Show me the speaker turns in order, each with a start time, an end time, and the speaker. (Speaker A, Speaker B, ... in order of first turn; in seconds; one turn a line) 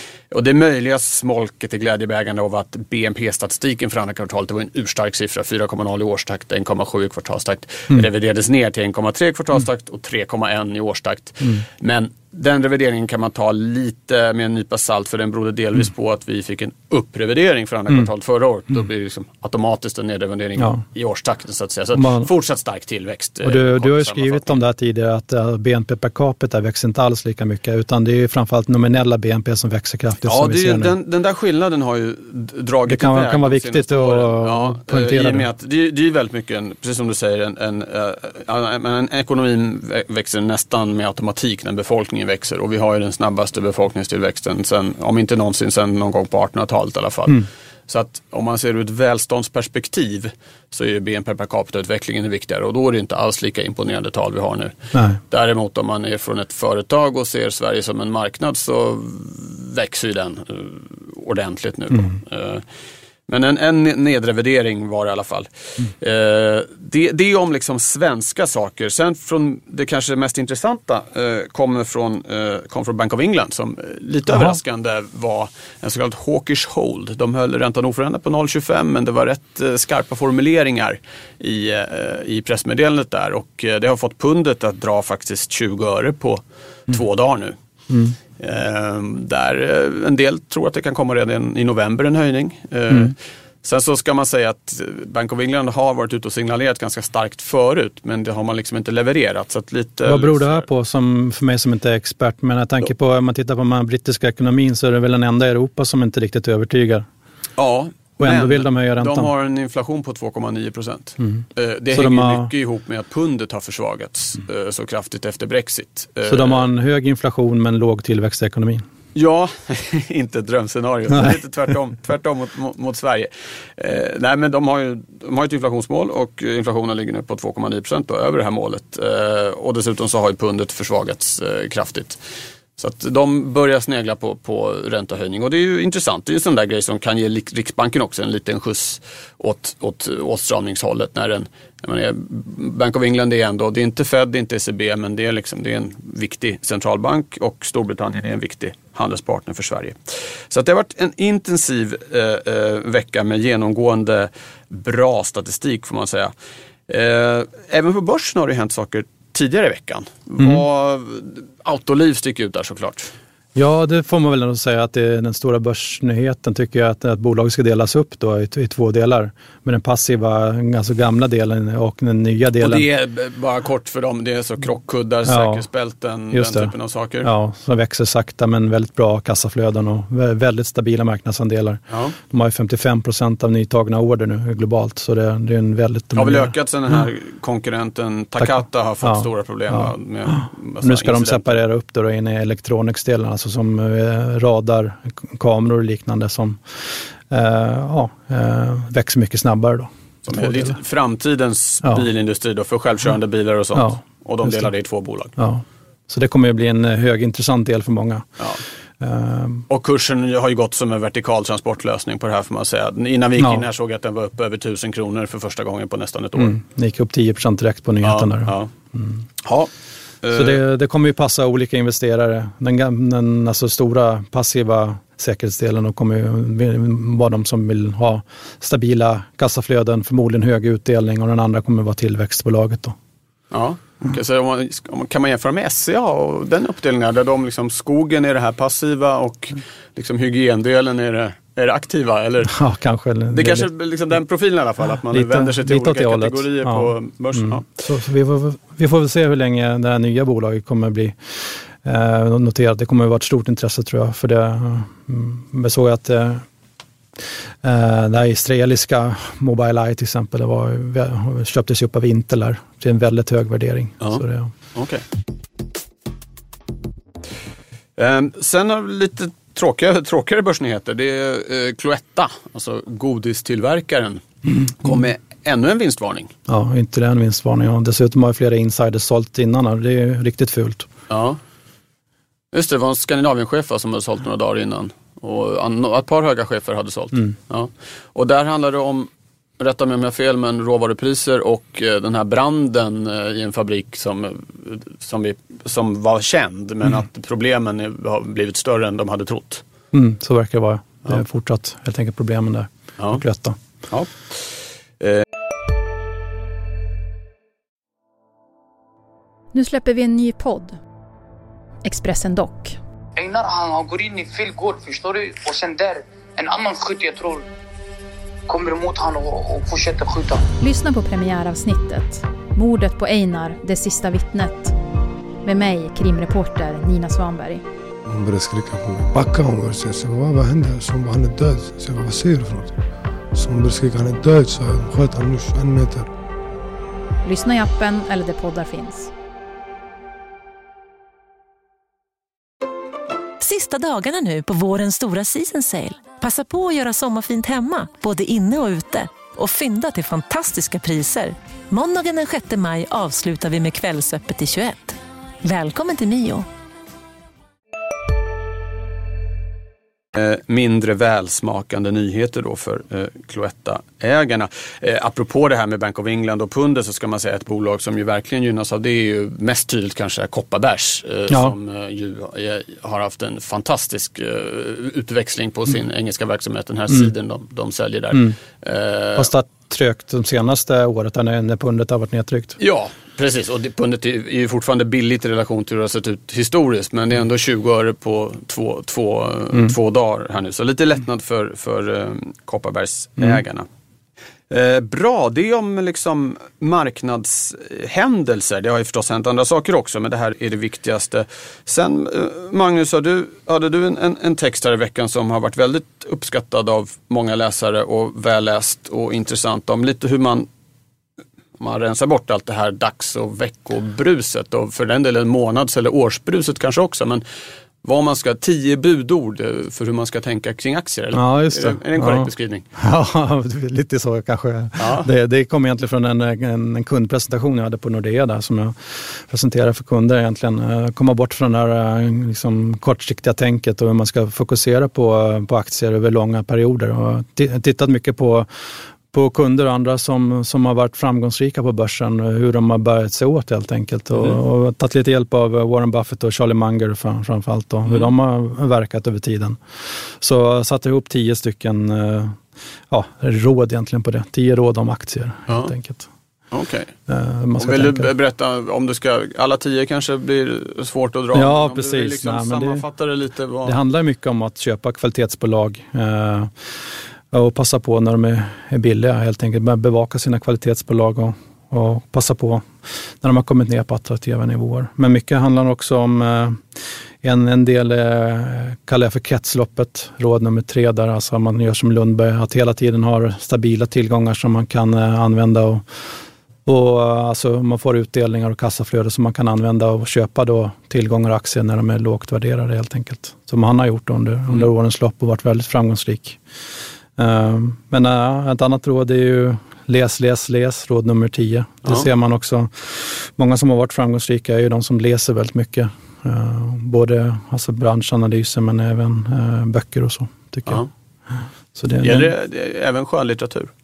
Speaker A: 0.3-24.6
Speaker B: 20.6-20.8
Speaker B: 21.9-22.3
Speaker B: 23.4-30.9
Speaker A: 30.2-62.6
Speaker B: 32.9-35.5
Speaker B: 54.9-55.2
Speaker A: 63.3-87.5
Speaker B: 74.3-74.6
Speaker B: 87.9-88.1
Speaker A: 88.4-100.7
Speaker B: 92.9-93.1
Speaker B: 100.0-107.0
Speaker A: 107.6-116.7
Speaker B: 108.2-109.3
Speaker B: 111.2-112.5
Speaker B: 116.2-118.8
Speaker A: 119.1-132.2
Speaker B: 121.1-121.4
Speaker A: 132.8-156.3
Speaker A: 156.9-163.1
Speaker B: 160.4-160.6
Speaker B: 163.5-172.8
Speaker A: 172.6-177.3
Speaker B: 175.2-175.7
Speaker B: 176.3-186.5
Speaker A: 181.9-182.1
Speaker A: 186.1-191.6
Speaker B: 188.4-200.8
Speaker A: 200.2-205.4
Speaker B: 203.7-204.7
Speaker B: 205.4-208.3
Speaker B: 209.0-209.6
Speaker A: 209.7-216.6
Speaker B: 213.4-213.6
Speaker B: 216.3-219.2
Speaker A: 218.0-218.7
Speaker A: 219.4-219.7
Speaker A: 220.2-220.6
Speaker B: 220.3-232.9
Speaker A: 233.5-242.6
Speaker B: 242.5-243.7
Speaker A: 243.3-247.6
Speaker B: 245.1-256.4
Speaker B: 257.6-264.5
Speaker A: 264.7-265.0
Speaker A: 268.0-276.3
Speaker B: 276.5-280.9
Speaker A: 281.1-281.4
Speaker A: 282.5-299.6
Speaker B: 299.9-303.6
Speaker A: 303.9-305.2
Speaker C: 309.5-310.8
Speaker C: 311.8-312.8
Speaker D: 313.2-317.4
Speaker D: 318.5-320.5
Speaker C: 320.6-324.7
Speaker C: 325.4-327.6
Speaker E: 328.1-332.8
Speaker E: 333.3-336.1
Speaker C: 337.2-339.1
Speaker F: 343.4-356.5
Speaker A: 360.1-379.3
Speaker B: 371.3-371.6
Speaker B: 379.1-382.6
Speaker A: 382.6-393.7
Speaker A: 394.5-410.5
Speaker A: 411.6-417.2
Speaker A: 417.8-422.6
Speaker B: 421.1-438.5
Speaker A: 424.8-425.1
Speaker B: 439.1-456.1
Speaker A: 455.5-455.7
Speaker A: 456.5-456.9
Speaker B: 457.1-458.1
Speaker A: 457.6-463.8
Speaker B: 461.3-462.8
Speaker B: 463.6-466.7
Speaker B: 467.3-472.7
Speaker B: 473.2-486.0
Speaker B: 486.6-496.4
Speaker B: 497.2-510.8
Speaker B: 511.7-512.3
Speaker A: 512.0-513.7